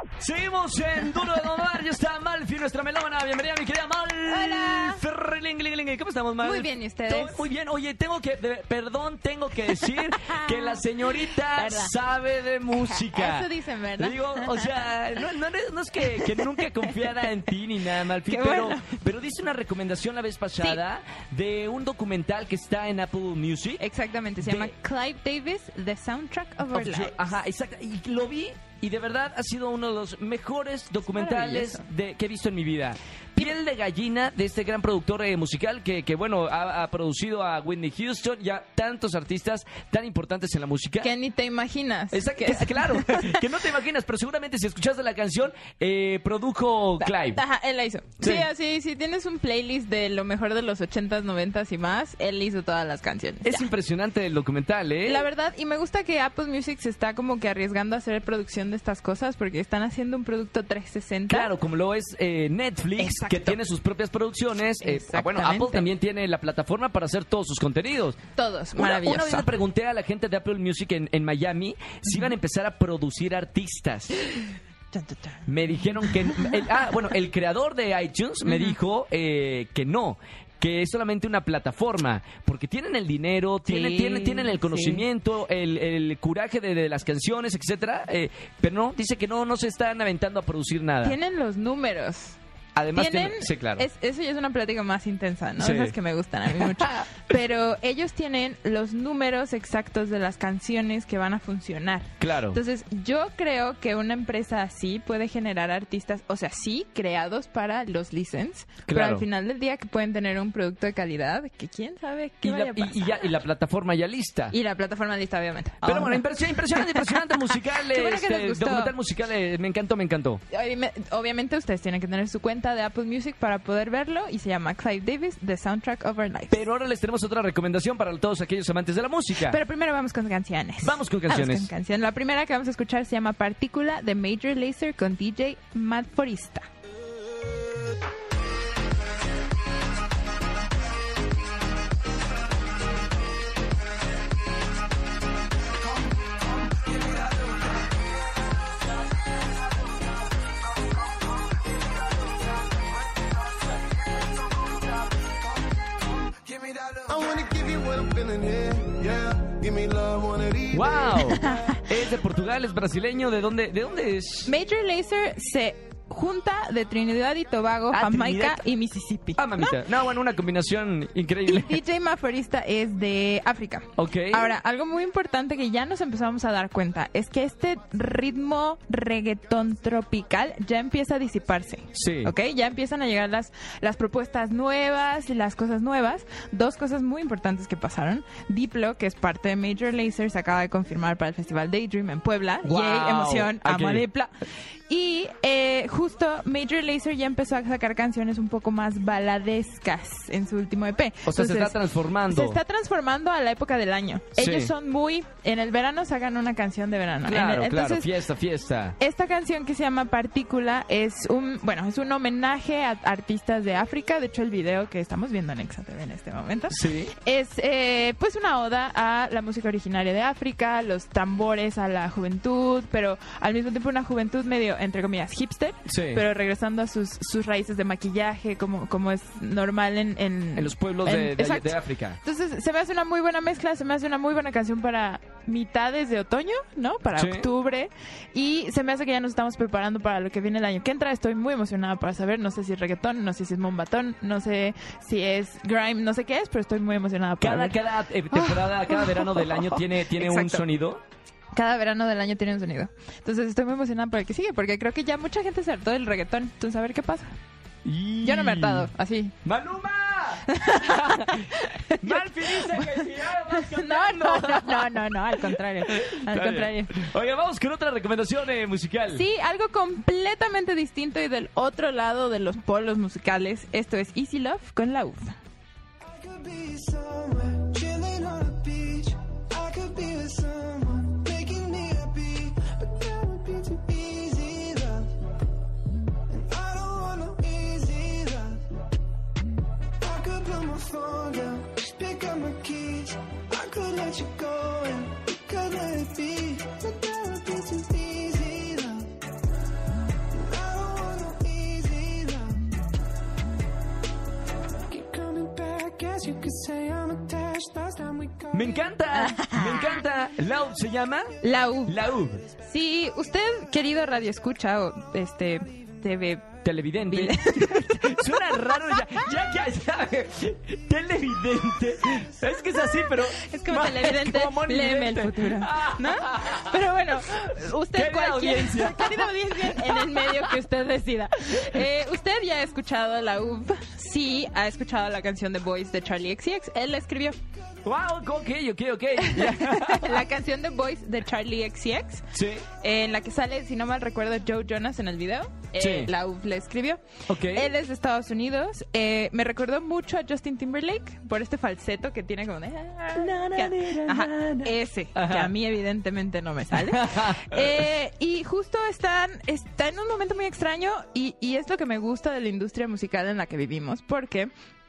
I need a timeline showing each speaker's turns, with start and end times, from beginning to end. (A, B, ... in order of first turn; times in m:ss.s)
0:00.2-0:13.5 A
0:04.3-0:05.0 B
0:06.4-0:07.5 B
0:09.7-0:11.9 B
0:12.7-0:15.2 B
0:14.0-0:23.8 A
0:16.0-0:17.3 B
0:18.2-0:19.0 B
0:23.8-0:27.3 B
0:24.4-0:24.7 A
0:26.7-0:41.1 A
0:31.1-0:31.9 B
0:41.0-0:43.5 B
0:42.1-0:47.4 A
0:47.0-0:53.7 B
0:48.2-0:48.5 A
0:53.4-0:55.2 A
0:55.0-1:01.5 B
1:01.3-1:08.2 A
1:03.0-1:03.6 B
1:04.8-1:05.9 B
1:08.4-1:09.5 B
1:08.8-1:14.2 A
1:12.0-1:12.3 B
1:14.9-1:16.8 B
1:15.5-1:31.2 A
1:18.4-1:18.8 B
1:23.7-1:25.0 B
1:31.0-1:32.4 B
1:32.8-1:33.9 A
1:32.9-1:53.3 B
1:35.6-1:36.0 A
1:36.6-1:37.0 A
1:42.2-1:42.6 A
1:48.9-1:49.3 A
1:52.4-1:54.6 A
1:54.5-1:58.9 B
1:55.8-2:00.4 A
2:00.5-2:06.6 B
2:06.5-2:09.6 A
2:09.4-2:16.7 B
2:10.8-2:11.7 A
2:26.7-2:27.6 C
2:36.4-2:41.3 C
2:40.7-2:44.5 A
2:41.3-2:41.8 B
2:44.5-2:49.8 B
2:47.9-2:48.6 A
2:49.4-2:51.8 A
2:51.4-3:14.3 B
2:54.0-2:54.5 A
3:02.0-3:02.3 A
3:12.6-3:14.0 A
3:14.9-3:28.1 B
3:21.3-3:22.6 A
3:24.4-3:24.7 A
3:27.3-3:29.0 A
3:29.0-4:07.8 B
3:36.7-3:37.1 A
3:45.9-3:46.2 A
3:50.6-3:52.2 A
3:57.2-3:57.5 A
4:07.4-4:11.0 A
4:08.3-4:10.6 B
4:11.5-4:17.3 B
4:17.8-4:18.9 A
4:18.2-4:19.4 B
4:19.4-4:21.5 A
4:20.5-4:26.9 B
4:22.0-4:29.2 A
4:29.1-4:35.3 B
4:36.0-4:45.1 C
4:46.3-4:48.7 C
4:50.0-4:59.1 C
5:00.3-5:02.7 C
5:04.9-5:08.9 C
5:08.5-5:12.4 A
5:09.1-5:10.0 B
5:11.4-5:19.2 B
5:16.6-5:26.8 A
5:22.7-5:37.4 B
5:27.9-5:30.5 A
5:37.8-5:40.2 A
5:39.2-6:04.5 B
5:42.3-5:42.7 A
5:45.8-5:46.1 A
5:47.3-5:47.7 A
5:53.2-5:55.5 A
5:56.7-5:57.8 A